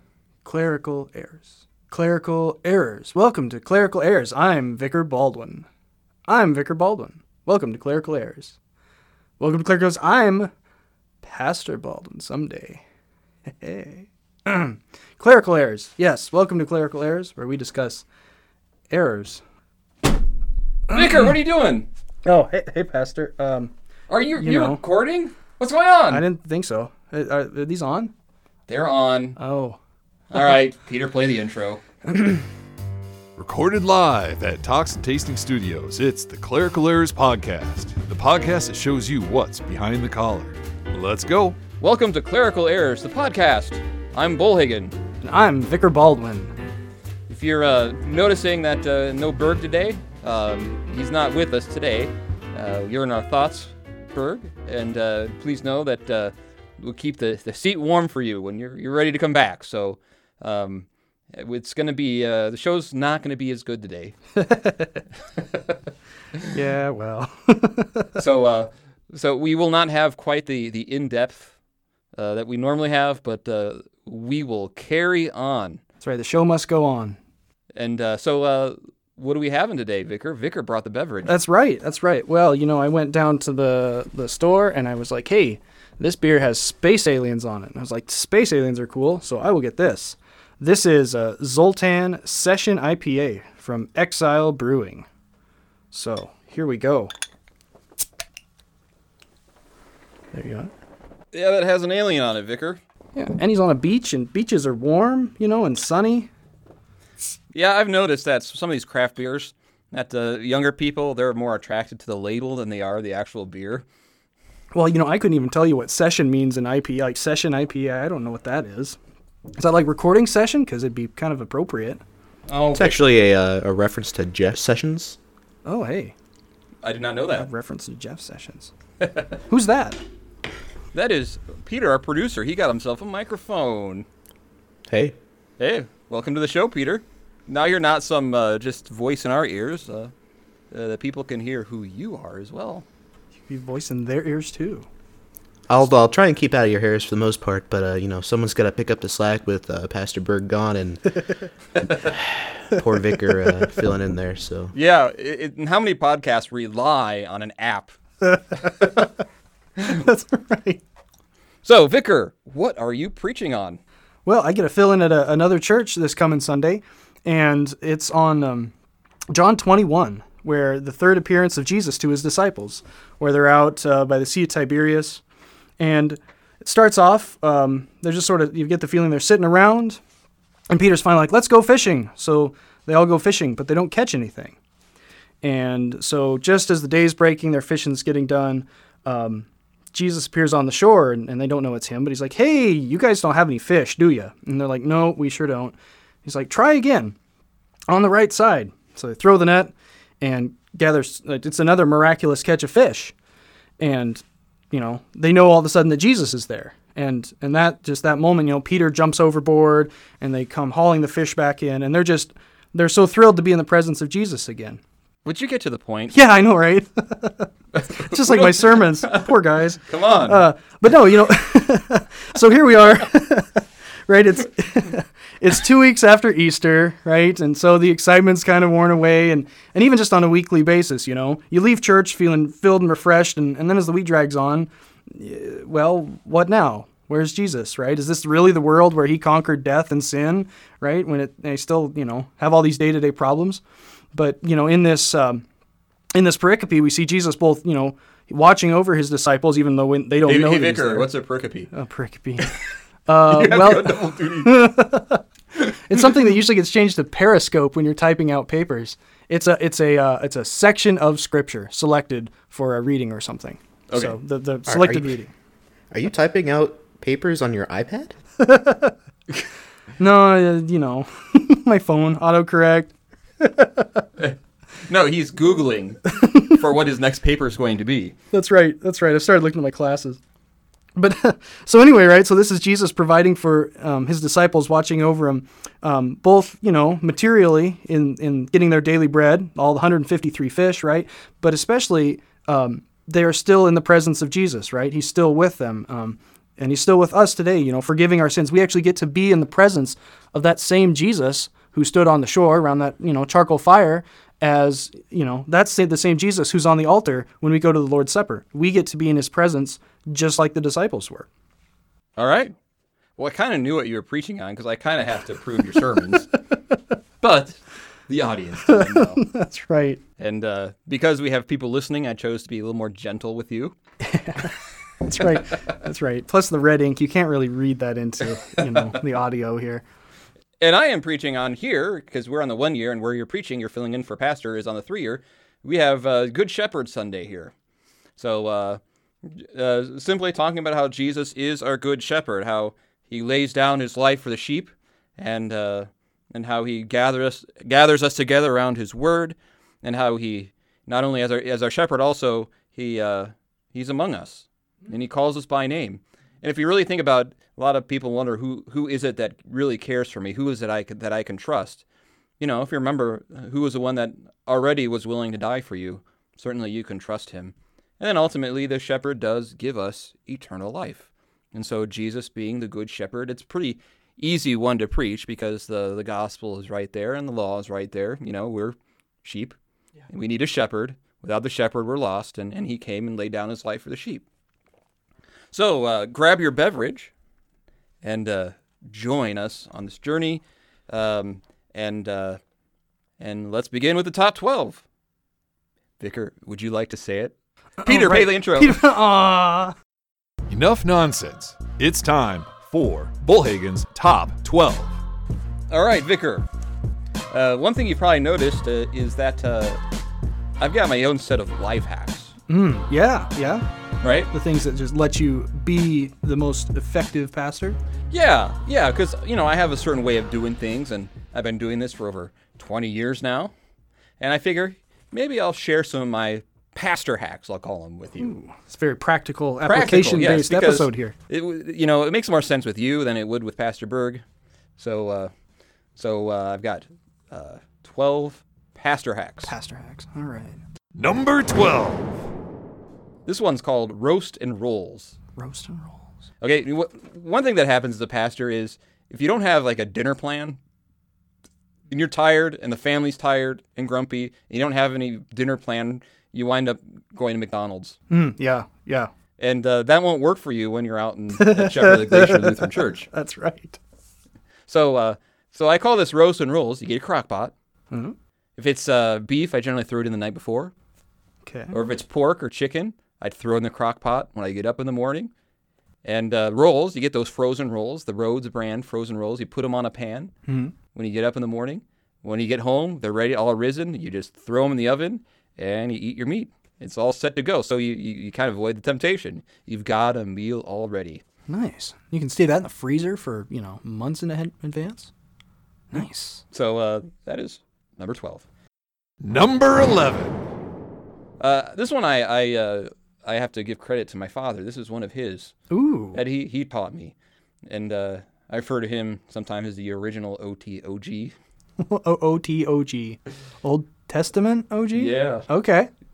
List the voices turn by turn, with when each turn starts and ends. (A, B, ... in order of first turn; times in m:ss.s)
0:00.4-0:05.7 A
0:06.3-0:08.6 A
0:09.4-0:10.5 A
0:11.2-0:12.8 A
0:13.5-0:18.0 A
0:18.9-0:19.4 A
0:20.9-0:21.9 B
0:22.2-0:23.7 A
0:24.1-0:26.2 B
0:24.4-0:24.8 A
0:26.1-0:28.1 A
0:28.7-0:29.4 B
0:29.4-0:29.8 A
0:30.3-0:31.8 B
0:32.1-0:32.4 A
0:33.4-0:41.6 C
0:41.8-0:45.0 B
0:45.2-0:46.5 A
0:47.3-1:04.2 B
1:04.4-1:05.0 A
1:06.5-1:08.1 A
1:08.2-1:11.5 B
1:12.2-1:15.8 B
1:16.0-1:17.2 A
1:17.7-1:21.3 B
1:21.2-1:35.0 A
1:35.9-1:37.1 A
1:40.3-1:40.7 A
1:41.3-1:42.8 B
1:43.2-1:46.3 A
1:47.5-1:53.8 B
1:54.7-1:59.0 A
1:59.6-2:02.0 A
2:02.5-2:03.0 B
2:02.7-2:05.2 D
2:05.6-2:06.1 A
2:06.8-2:07.5 B
2:07.3-2:08.7 A
2:09.0-2:09.4 B
2:09.5-2:10.0 A
2:10.9-2:14.0 B
2:14.9-2:15.2 D
2:15.6-2:20.1 B
2:20.7-2:22.8 B
2:23.5-2:24.9 A
2:25.7-2:31.2 D
2:31.9-2:34.7 D
2:34.7-2:38.0 B
2:38.2-2:39.1 A
2:39.8-2:40.8 A
2:41.6-2:43.8 B
2:44.2-2:48.7 A
2:49.3-2:55.2 A
2:55.8-3:00.0 A
3:00.7-3:04.6 A
3:05.4-3:17.2 A
3:17.9-3:23.1 A
3:23.8-3:34.8 A
3:35.2-3:36.2 B
3:36.1-4:03.6 A
3:37.7-3:39.3 B
3:39.8-3:40.4 B
4:04.1-4:05.4 A
4:06.1-4:11.1 A
4:10.2-4:11.7 B
4:11.7-4:12.5 A
4:13.1-4:15.2 A
4:13.3-4:14.7 B
4:15.9-4:25.3 A
4:23.9-4:24.2 B
4:24.7-4:25.2 D
4:25.9-4:28.2 D
4:28.4-4:28.9 A
4:30.0-4:34.0 A
4:34.2-4:38.1 B
4:36.2-4:36.5 A
4:38.3-4:40.2 A
4:41.0-5:11.3 A
5:12.2-5:12.5 B
5:13.2-5:16.3 B
5:17.2-5:19.2 B
5:18.7-5:20.0 A
5:20.2-5:23.7 B
5:24.0-5:29.8 A
5:30.6-5:37.5 B
5:38.2-6:01.8 B
6:02.4-6:19.5 B
6:20.1-6:24.2 B
6:25.5-6:27.1 B
6:28.0-6:32.4 B
6:33.2-6:34.8 B
6:36.0-6:38.8 B
6:37.8-6:39.7 A
6:40.5-6:45.0 C
6:45.7-6:46.5 B
6:47.3-6:49.8 B
6:50.6-6:52.3 B
6:52.5-6:53.6 A
6:54.0-6:54.3 B
6:54.3-6:57.8 A
6:58.1-7:03.5 B
7:04.2-7:08.4 B
7:08.2-7:11.1 A
7:09.6-7:14.2 B
7:14.8-7:15.3 B
7:16.0-7:19.5 B
7:19.4-7:20.6 A
7:20.9-7:22.2 C
7:23.2-7:25.2 B
7:25.4-7:26.1 A
7:26.4-7:30.6 B
7:31.9-7:38.0 B
7:38.1-7:39.1 A
7:39.4-7:43.1 B
7:41.3-7:43.8 A
7:44.7-7:47.5 B
7:48.6-7:50.7 B
7:51.4-7:51.7 A
7:51.7-7:55.3 B
7:56.0-8:00.3 B
8:00.5-8:00.7 A
8:00.9-8:11.2 B
8:11.5-8:15.1 A
8:15.9-8:16.4 A
8:16.0-8:18.4 B
8:19.2-8:20.4 C
8:21.4-8:25.5 B
8:25.7-8:26.2 A
8:26.1-8:27.1 B
8:27.7-8:31.3 B
8:31.8-8:35.9 A
8:34.9-8:35.5 B